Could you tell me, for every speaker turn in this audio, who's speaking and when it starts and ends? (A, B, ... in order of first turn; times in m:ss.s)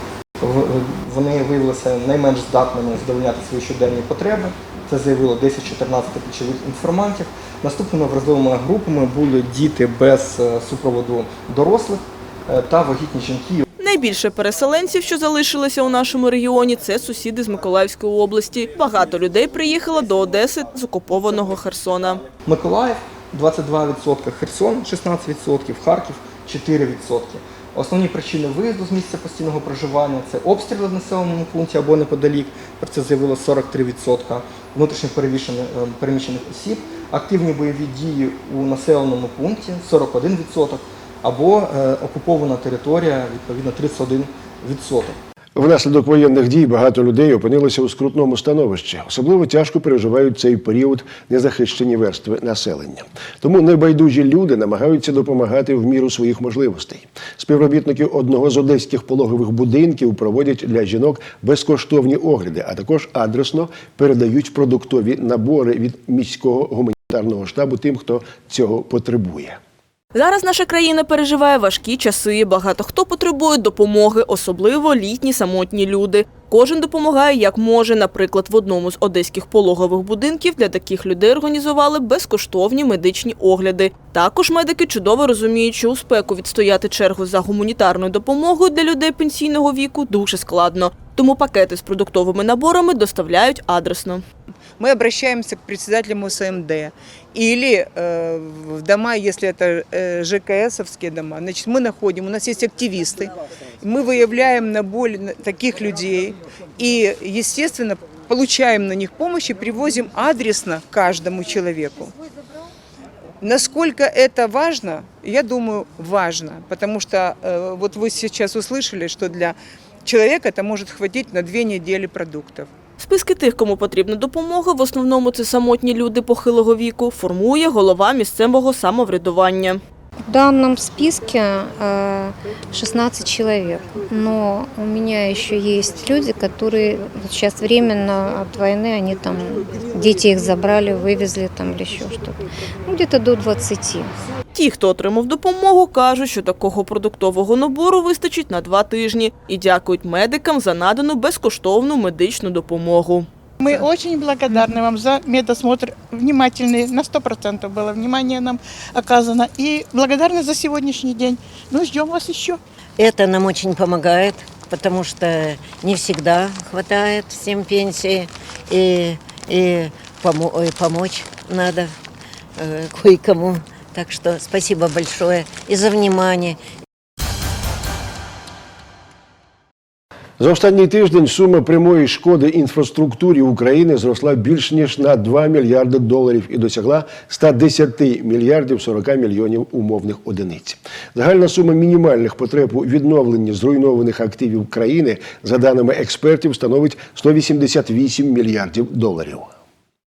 0:00.4-0:13.6 A
0:13.8-0:22.2 B
0:22.4-0:45.2 A
0:45.5-1:09.6 C
1:10.1-1:34.2 B
1:34.8-1:43.2 D
1:43.8-1:46.2 D
1:46.8-1:52.0 D
1:53.4-1:59.5 D
2:00.0-2:02.6 D
2:03.0-2:09.8 B
2:10.3-2:24.1 E
2:24.5-2:33.3 B
2:33.6-2:42.6 F
2:43.0-2:51.9 G
2:52.6-2:56.6 G
3:00.4-3:19.5 C